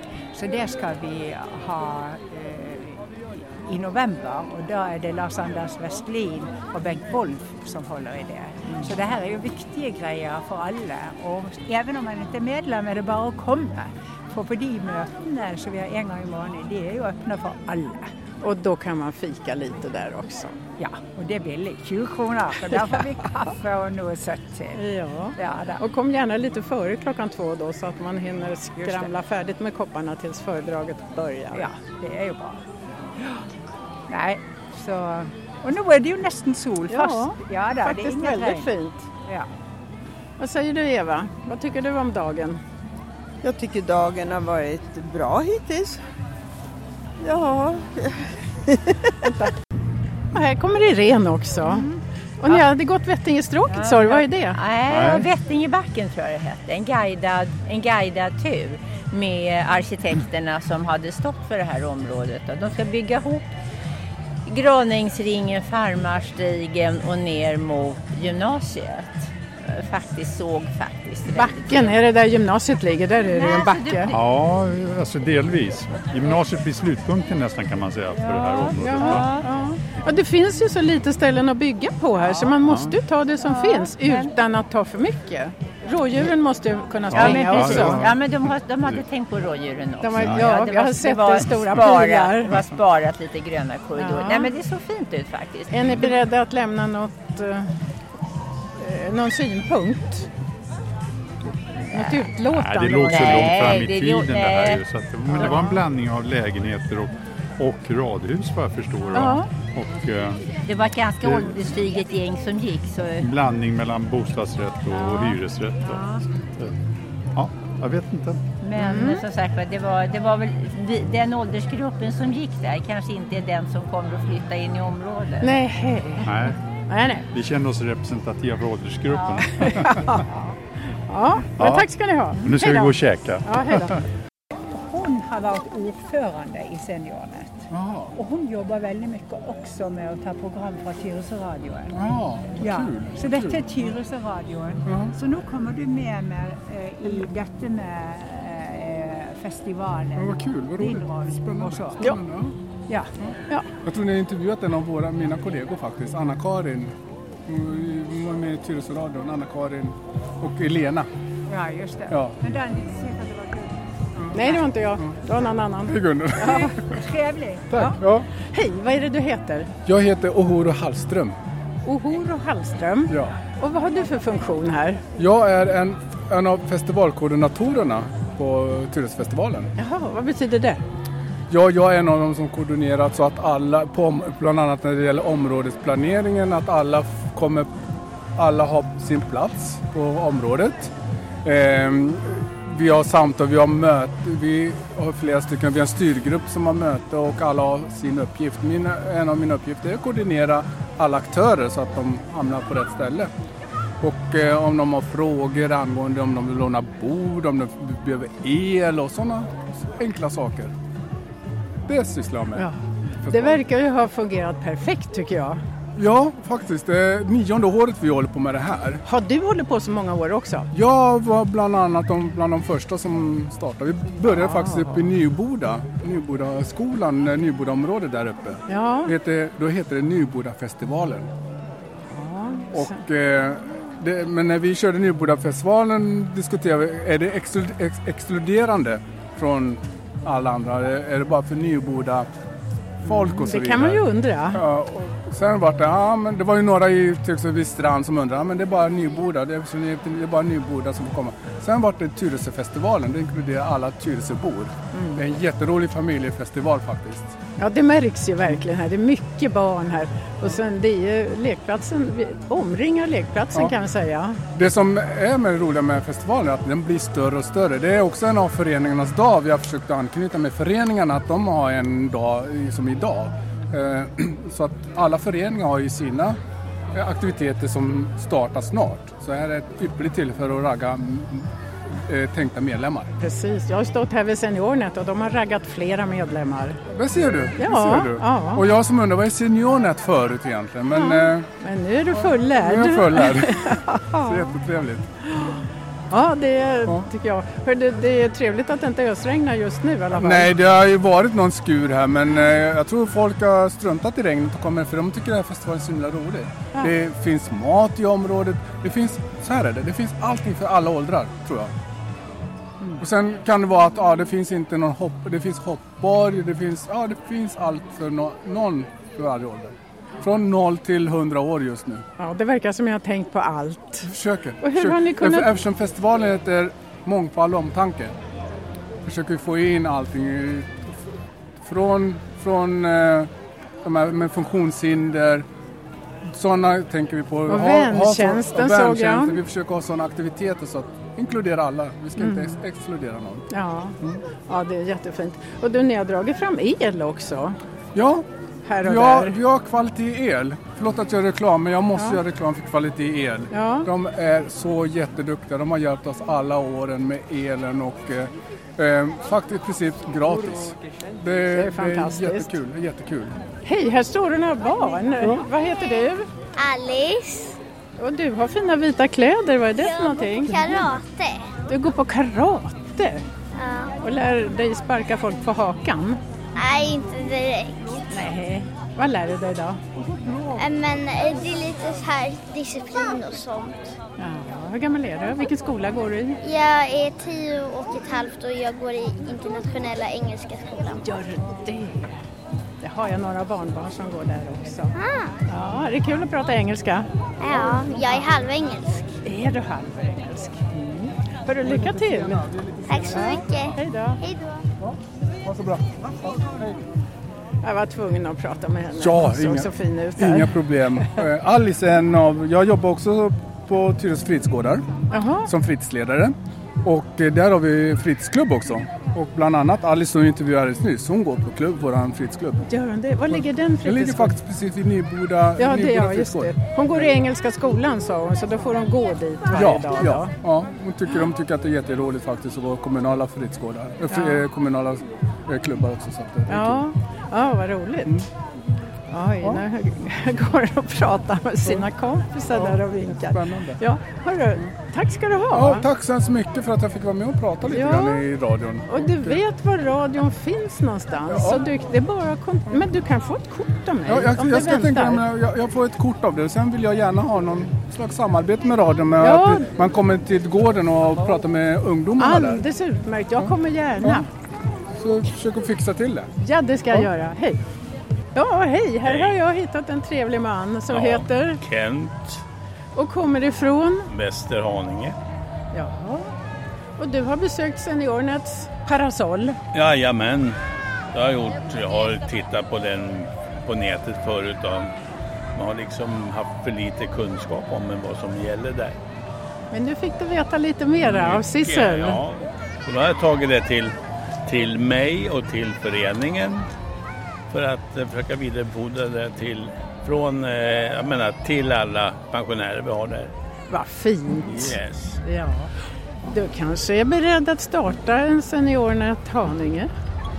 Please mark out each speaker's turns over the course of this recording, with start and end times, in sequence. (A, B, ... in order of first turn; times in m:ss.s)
0:00.3-0:03.0 A
0:03.7-0:18.1 A
0:18.4-0:20.6 B
0:20.8-0:24.8 A
0:24.8-0:31.7 B
0:25.4-0:25.8 A
0:28.8-0:29.1 A
0:31.5-0:32.6 A
0:34.1-0:38.7 A
0:36.9-0:39.1 B
0:40.4-0:42.6 B
0:43.4-0:46.0 C
0:47.2-0:49.4 C
0:50.3-0:51.9 B
0:51.6-0:51.9 D
0:52.4-0:54.6 B
0:53.7-1:03.5 D
0:54.9-0:55.3 E
1:04.5-1:12.0 D
1:11.3-1:14.1 B
1:13.3-1:14.2 D
1:14.1-1:19.3 E
1:18.5-1:19.4 D
1:18.6-1:28.1 B
1:22.6-1:23.0 E
1:23.5-1:24.2 D
1:27.1-1:29.0 E
1:27.1-1:36.0 D
1:30.0-1:32.7 B
1:34.0-1:34.5 B
1:35.7-1:37.7 B
1:38.8-1:40.3 B
1:41.9-1:43.6 B
1:42.5-1:50.5 E
1:43.0-1:45.7 D
1:49.1-1:49.5 B
1:50.6-1:53.3 D
1:51.2-1:51.5 E
1:53.2-1:56.0 E
1:55.0-1:56.2 D
1:57.4-1:58.4 E
1:58.6-2:05.6 D
1:58.8-1:59.2 B
2:05.4-2:07.3 B
2:06.2-2:06.6 E
2:07.3-2:10.2 E
2:09.6-2:10.3 B
2:11.1-2:14.0 B
2:11.6-2:11.9 E
2:12.4-2:13.9 E
2:14.7-2:22.0 A
2:17.7-2:18.1 F
2:21.9-2:23.7 F
2:22.6-2:32.1 A
2:24.9-2:25.1 F
2:30.2-2:32.5 F
2:33.2-2:36.9 F
2:37.5-2:41.1 F
2:41.5-2:43.8 A
2:42.1-2:42.4 F
2:44.3-2:44.6 A
2:44.3-2:46.7 B
2:45.9-2:46.9 F
2:46.4-2:47.7 A
2:47.7-2:48.3 F
2:48.5-2:49.7 B
2:49.9-2:51.4 F
2:51.9-2:55.0 B
2:53.1-2:53.4 F
2:55.2-2:59.7 F
2:59.8-3:00.8 B
3:01.5-3:07.7 F
3:08.4-3:10.9 F
3:11.4-3:23.3 F
3:24.0-3:30.7 F
3:31.9-3:32.7 F
3:33.3-3:33.6 F
3:33.3-3:35.6 B
3:36.0-3:39.0 F
3:39.1-3:40.7 B
3:40.7-3:51.3 F
3:44.3-3:45.1 B
3:48.7-3:49.1 B
3:52.1-3:53.0 B
3:52.7-4:02.3 F
4:03.0-4:17.4 F
4:03.0-4:04.6 B
4:14.9-4:15.2 B
4:17.6-4:24.4 B
4:24.6-4:36.4 F
4:36.9-4:41.5 F
4:42.1-4:43.2 F
4:43.2-4:46.8 B
4:46.9-4:51.5 F
4:47.6-4:48.6 B
4:50.9-4:54.5 B
4:52.2-4:55.0 F
4:55.3-4:55.6 B
4:56.1-5:00.5 B
5:00.2-5:11.7 F
5:13.0-5:22.0 F
5:22.2-5:24.1 B
5:24.0-5:28.2 F
5:24.6-5:25.5 B
5:29.0-5:30.9 F
5:31.6-5:33.3 F
5:33.8-5:35.4 F
5:36.3-5:43.4 F
5:37.5-5:39.4 B
5:42.2-5:42.6 B
5:43.5-5:44.0 B
5:44.5-5:47.6 B
5:48.0-5:48.2 F
5:48.7-5:49.4 B
5:48.8-6:03.4 F
5:53.5-5:53.9 B
6:01.5-6:02.5 B
6:03.6-6:06.3 B
6:06.6-6:07.6 G
6:08.0-6:10.9 B
6:09.8-6:11.5 G
6:11.7-6:13.2 B
6:13.6-6:14.0 G
6:14.0-6:16.2 B
6:16.6-6:18.3 G
6:18.1-6:19.8 B
6:20.5-6:24.0 G
6:24.2-6:26.4 B
6:26.4-6:31.1 G
6:31.0-6:32.2 B
6:32.8-6:34.9 B
6:34.9-6:35.3 G
6:35.5-6:38.2 B
6:37.4-6:39.2 G
6:39.2-6:42.5 B
6:41.6-6:43.3 F
6:42.9-6:44.6 G
6:43.1-6:44.2 B
6:44.8-6:46.8 F
6:47.6-6:50.6 B
6:49.0-6:54.9 F
6:55.1-6:55.5 B
6:55.5-7:02.6 F
7:02.7-7:04.4 B
7:03.4-7:07.1 F
7:05.6-7:10.3 B
7:09.5-7:16.9 F
7:14.1-7:14.4 B
7:16.5-7:18.3 B
7:19.1-7:25.9 B
7:22.5-7:22.8 F
7:23.3-7:23.8 F
7:25.5-7:29.4 F
7:27.7-7:28.2 B
7:28.9-7:35.2 B
7:31.3-7:31.6 F
7:34.1-7:42.6 F
7:39.2-7:39.7 B
7:42.2-7:44.3 B
7:45.0-7:46.3 F
7:46.4-7:47.6 B
7:48.4-7:51.6 B
7:49.0-7:49.4 H
7:50.9-7:52.4 H
7:53.0-7:54.1 B
7:54.1-7:55.2 H
7:55.7-7:56.3 B
7:57.0-7:59.6 B
7:59.7-8:00.6 H
8:01.1-8:04.9 H
8:05.6-8:09.0 H
8:09.7-8:12.2 B
8:11.0-8:14.0 H
8:14.5-8:16.7 H
8:17.5-8:23.3 H
8:23.7-8:25.7 B
8:24.5-8:25.2 H
8:26.3-8:29.9 B